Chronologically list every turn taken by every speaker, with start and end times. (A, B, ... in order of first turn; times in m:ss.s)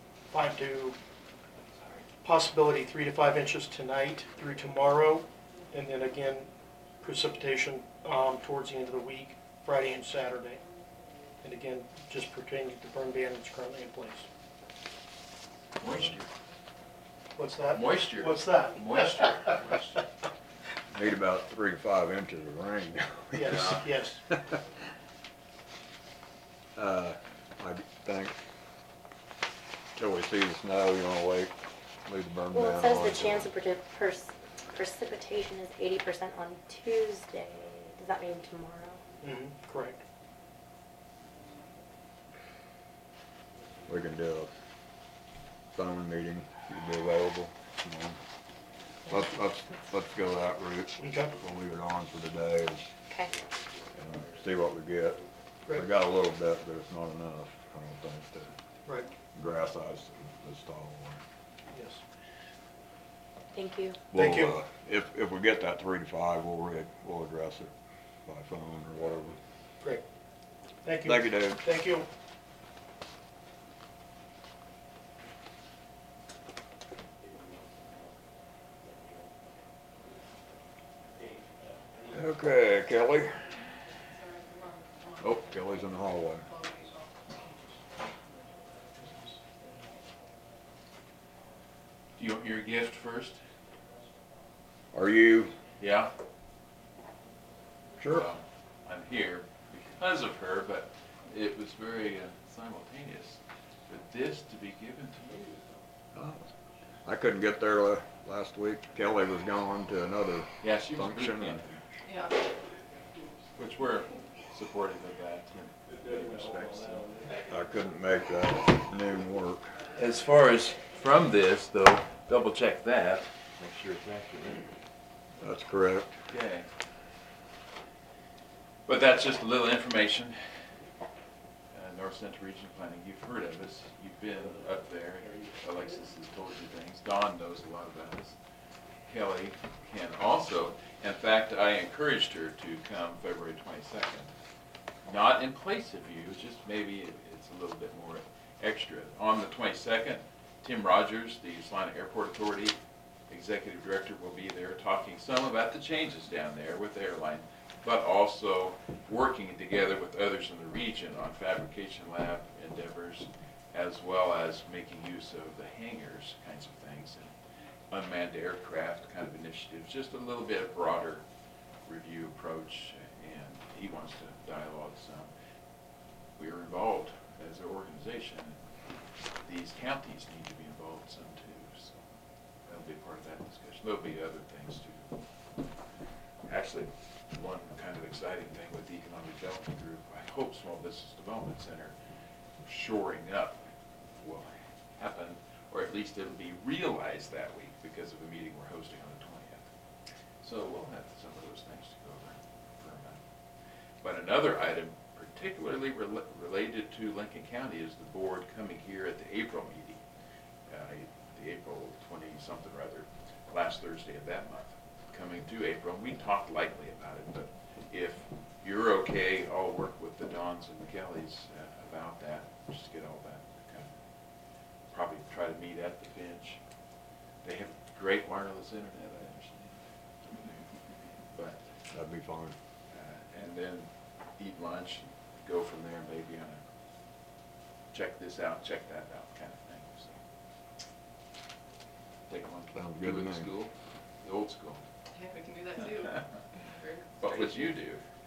0:00.3-0:01.0 A
0:02.2-0:10.6 A
0:11.4-0:14.3 A
0:15.8-0:16.3 B
0:17.4-0:19.6 A
0:17.7-0:20.0 B
0:20.9-0:24.6 C
0:23.3-0:24.2 A
0:26.8-0:28.4 C
0:29.9-0:33.5 C
0:32.5-0:39.0 D
0:39.2-0:40.0 A
0:43.9-0:44.5 C
0:45.7-0:48.2 C
0:49.1-0:52.8 C
0:51.0-0:51.3 A
0:53.9-0:58.5 C
0:59.3-1:01.2 C
1:01.7-1:02.0 A
1:03.5-1:04.0 D
1:04.1-1:07.7 C
1:04.1-1:04.5 A
1:08.2-1:09.4 C
1:10.8-1:12.1 A
1:11.0-1:11.6 C
1:22.1-1:23.4 C
1:24.1-1:27.4 E
1:25.2-1:26.5 C
1:32.2-1:33.4 B
1:34.9-1:35.5 C
1:35.8-1:36.1 B
1:38.0-1:38.3 C
1:38.0-1:45.7 B
1:46.1-1:46.4 C
1:47.0-1:51.6 C
1:50.6-1:51.8 B
1:52.0-1:52.4 E
1:53.5-1:57.2 B
1:57.5-1:59.6 C
1:59.9-2:04.7 B
2:05.4-2:06.1 C
2:06.3-2:06.7 B
2:08.8-2:10.4 B
2:11.7-2:18.4 B
2:19.0-2:24.3 B
2:25.0-2:32.8 B
2:33.3-2:47.3 B
2:47.9-2:51.2 B
2:51.8-2:55.3 B
2:56.4-2:58.6 B
2:59.4-3:02.0 B
3:02.6-3:05.1 B
3:06.5-3:11.9 B
3:12.6-3:13.6 B
3:14.2-3:19.7 B
3:20.4-3:23.2 B
3:24.0-3:30.0 B
3:30.7-3:43.9 B
3:44.9-3:46.6 B
3:47.4-3:50.6 B
3:51.3-3:51.6 B
3:51.9-3:52.5 C
3:52.9-3:56.6 B
3:57.9-4:00.2 B
4:02.3-4:03.7 B
4:02.7-4:03.5 C
4:04.2-4:04.8 B
4:05.1-4:07.8 E
4:07.2-4:08.0 B